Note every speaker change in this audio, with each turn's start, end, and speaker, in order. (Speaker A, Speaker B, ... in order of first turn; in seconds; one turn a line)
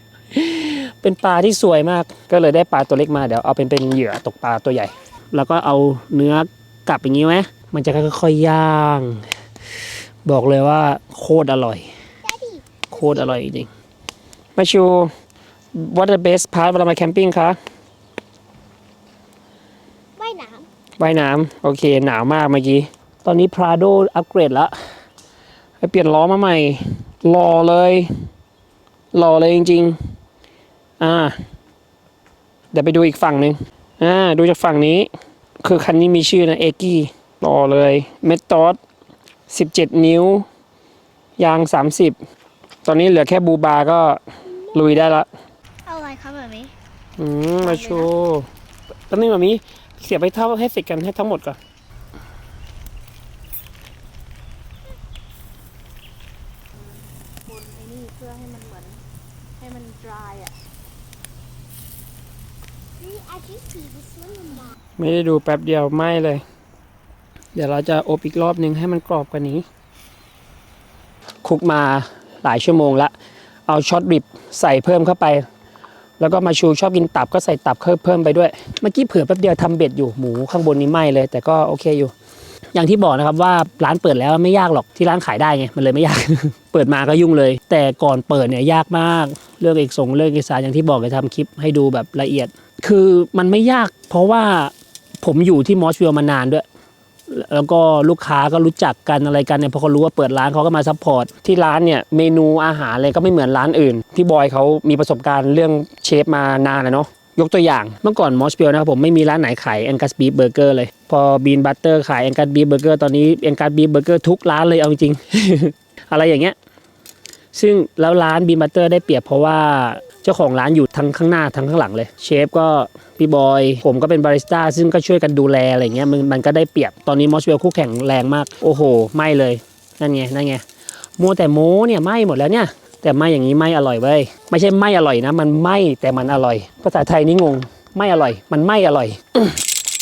Speaker A: 0.3-9.3
Speaker A: 10.2-11.9
Speaker B: 12.2-13.4
Speaker A: 12.9-13.7
Speaker A: 14.6-15.1
Speaker A: 15.7-17.6
Speaker B: 20.2-20.7
Speaker A: 21.0-24.7
Speaker A: 25.8-28.1
Speaker A: 29.1-30.0
Speaker A: 31.0-31.4
Speaker A: 32.7-35.1
Speaker A: 35.6-38.8
Speaker A: 39.5-40.5
Speaker A: 41.4-42.2
Speaker A: 42.9-44.2
Speaker A: 44.7-45.3
Speaker B: 45.9-46.7
Speaker A: 47.2-48.5
Speaker A: 49.1-51.6
Speaker C: 57.5-59.0
Speaker C: 59.6-60.5
Speaker B: 63.0-64.8
Speaker A: 65.0-66.4
Speaker A: 67.5-69.7
Speaker A: 71.4-73.1
Speaker A: 73.7-75.5
Speaker A: 76.2-82.1
Speaker A: 82.8-96.7
Speaker A: 97.3-116.6
Speaker A: 117.5-130.6
Speaker A: 131.2-139.6